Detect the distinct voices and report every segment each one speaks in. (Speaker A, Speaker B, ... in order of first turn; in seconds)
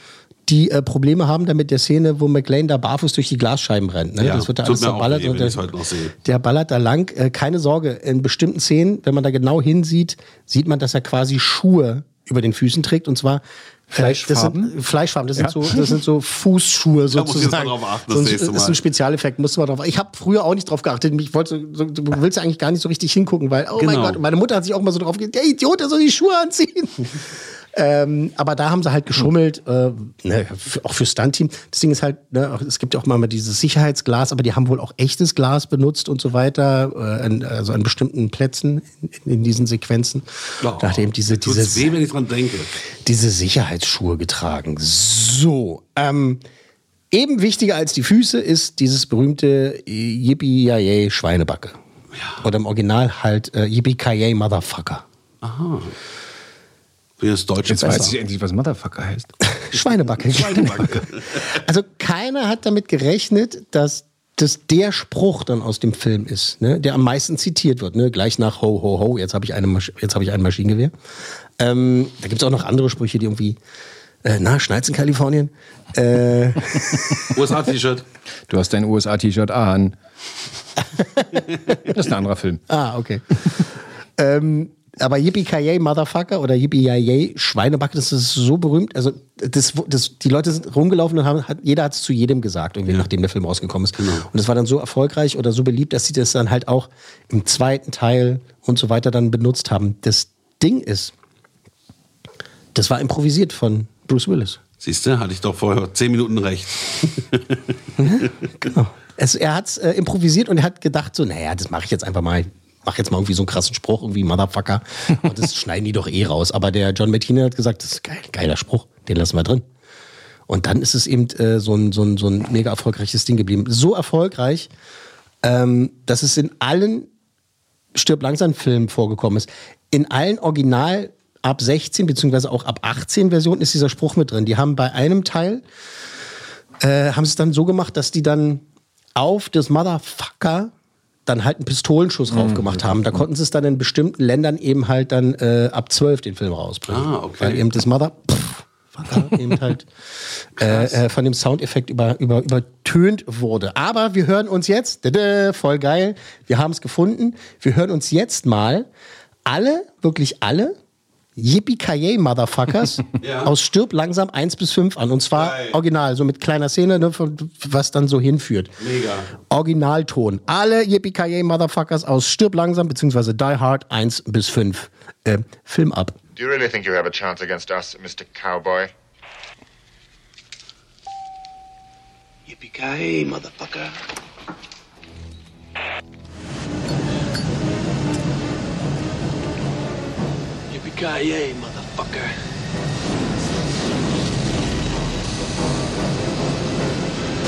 Speaker A: 0.5-5.7, 6.2-13.4, 13.9-27.1, 27.7-40.2, 40.8-42.0, 43.0-46.4, 47.1-51.8, 52.4-55.0, 59.7-70.9, 71.6-73.6, 74.2-77.3, 81.2-81.4, 82.7-83.4, 84.2-101.1, 102.7-104.6, 108.0-119.6, 120.5-124.7, 125.4-127.1, 127.9-135.6, 136.8-138.6, 139.2-140.7, 141.2-149.9, 150.6-158.9, 159.4-160.8, 161.4-168.7, 169.5-176.2
Speaker B: 4.2-6.1, 17.1-18.8, 23.8-24.2, 40.6-42.7, 52.1-52.4, 55.4-55.9, 57.2-58.2, 60.2-61.4, 77.3-78.0, 94.0-94.2, 104.8-108.3, 146.9-147.6, 150.6-151.0, 163.2-163.5, 165.3-165.8, 168.8-169.3
Speaker C: 13.9-14.7, 15.4-15.9, 57.6-59.3, 78.5-79.9, 81.9-82.6, 142.3-143.2
Speaker D: 176.3-178.9
Speaker E: 182.5-183.9, 190.7-192.3